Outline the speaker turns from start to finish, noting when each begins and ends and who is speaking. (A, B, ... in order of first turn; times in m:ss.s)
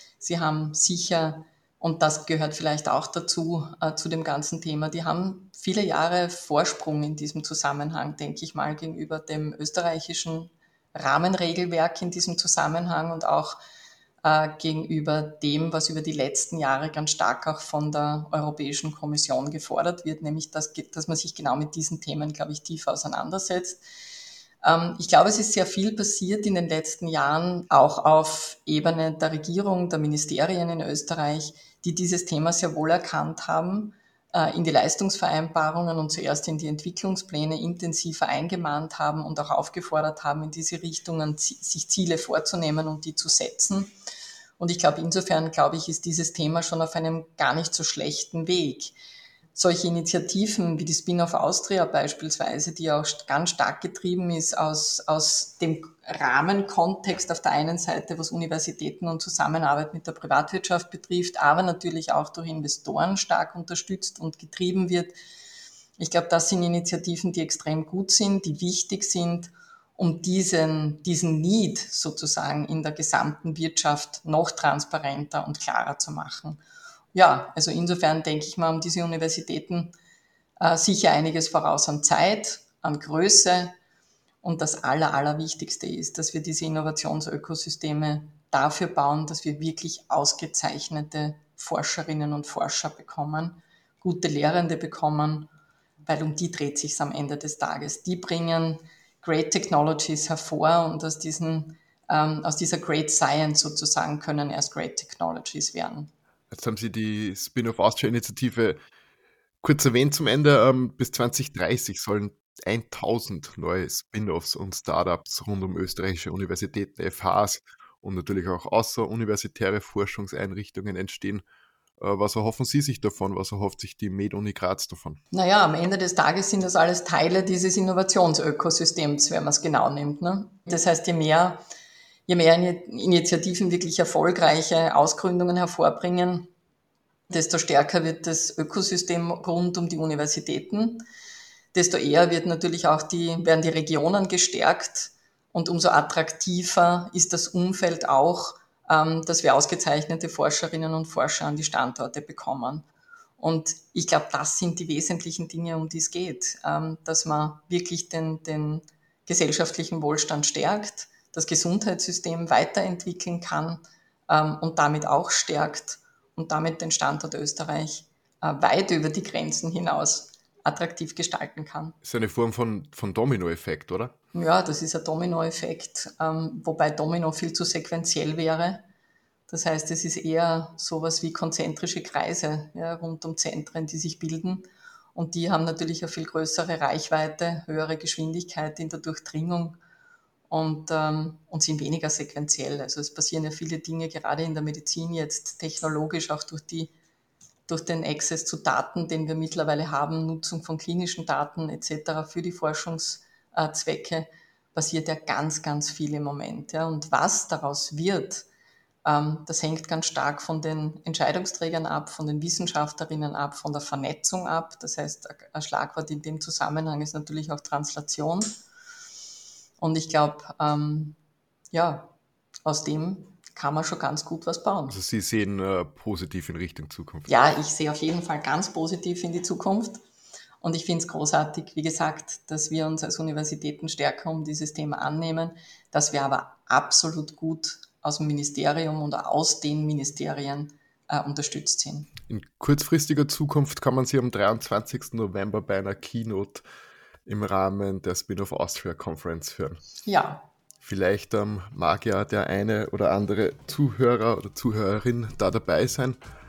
0:00.2-0:13.6 A
0:14.2-0:23.8 A
0:24.6-0:43.9 A
0:44.6-0:48.9 A
0:49.5-1:05.1 A
1:06.0-1:16.6 A
1:17.1-1:20.0 A
1:20.6-1:23.8 A
1:24.4-1:35.5 A
1:36.0-1:46.1 A
1:46.5-1:48.8 B
1:49.6-2:01.4 B
2:02.0-2:05.2 B
2:05.3-2:11.6 A
2:12.3-2:16.5 A
2:17.3-2:21.0 A
2:21.7-2:32.9 A
2:33.4-2:52.0 A
2:52.0-2:54.1 B
2:54.3-2:58.8 A
2:59.5-3:09.8 A
3:10.5-3:16.9 A
3:17.7-3:28.5 A
3:29.0-3:38.6 A
3:39.8-3:41.2 A
3:41.7-3:42.1 A
3:42.6-3:45.0 A
3:44.9-3:47.3 B
3:47.3-3:50.0 A
3:50.6-4:02.1 A
4:02.3-4:06.6 B
4:07.3-4:09.8 B
4:10.0-4:10.5 A
4:10.8-4:16.2 B